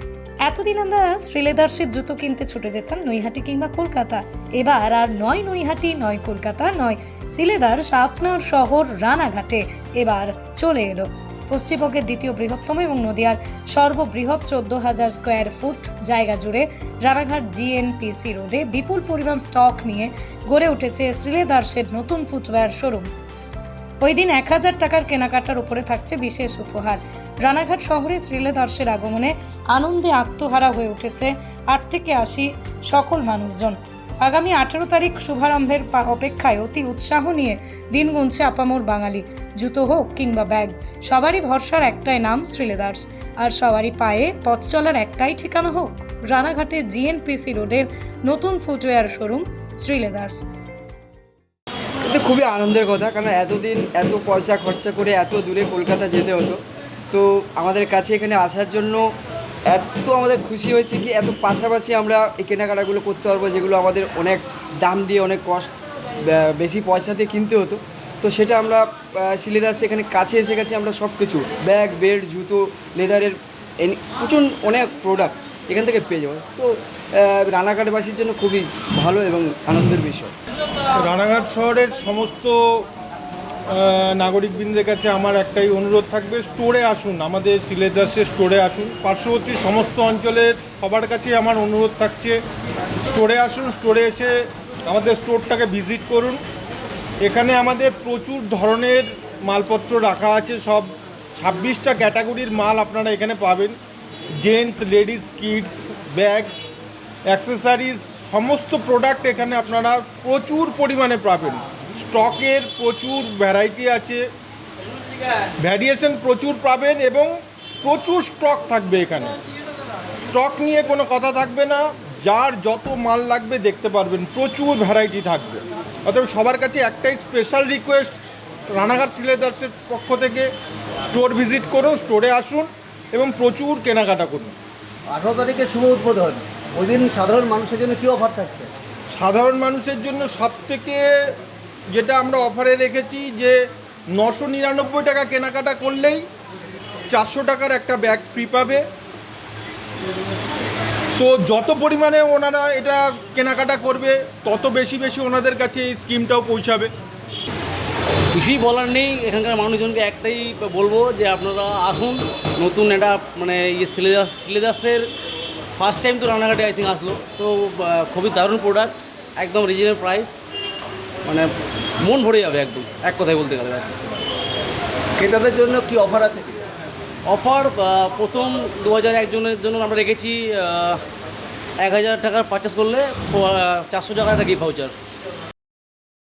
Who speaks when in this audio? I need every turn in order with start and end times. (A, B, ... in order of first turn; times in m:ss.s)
0:00.4-0:23.1 A
0:24.0-0:50.4 A
0:52.0-0:56.6 B
0:57.1-0:59.1 B
0:59.7-1:05.7 B
1:06.2-1:20.4 B
1:21.0-1:22.6 C
1:23.7-1:32.4 C
1:33.0-1:34.4 C
1:34.9-1:36.4 C
1:37.2-1:43.8 C
1:44.4-1:46.5 C
1:47.3-1:54.2 C
1:55.6-1:57.3 C
1:57.8-1:59.4 C
2:00.2-2:10.5 C
2:11.0-2:14.6 C
2:15.1-2:18.7 D
2:19.1-2:21.1 C
2:21.9-2:23.6 C
2:24.2-2:26.2 C
2:27.1-2:28.8 C
2:31.2-2:36.9 C
2:38.3-2:45.1 E
2:45.8-2:50.4 E
2:52.0-2:54.1 E
2:55.2-2:56.6 D
2:57.3-3:01.0 E
3:01.8-3:04.9 E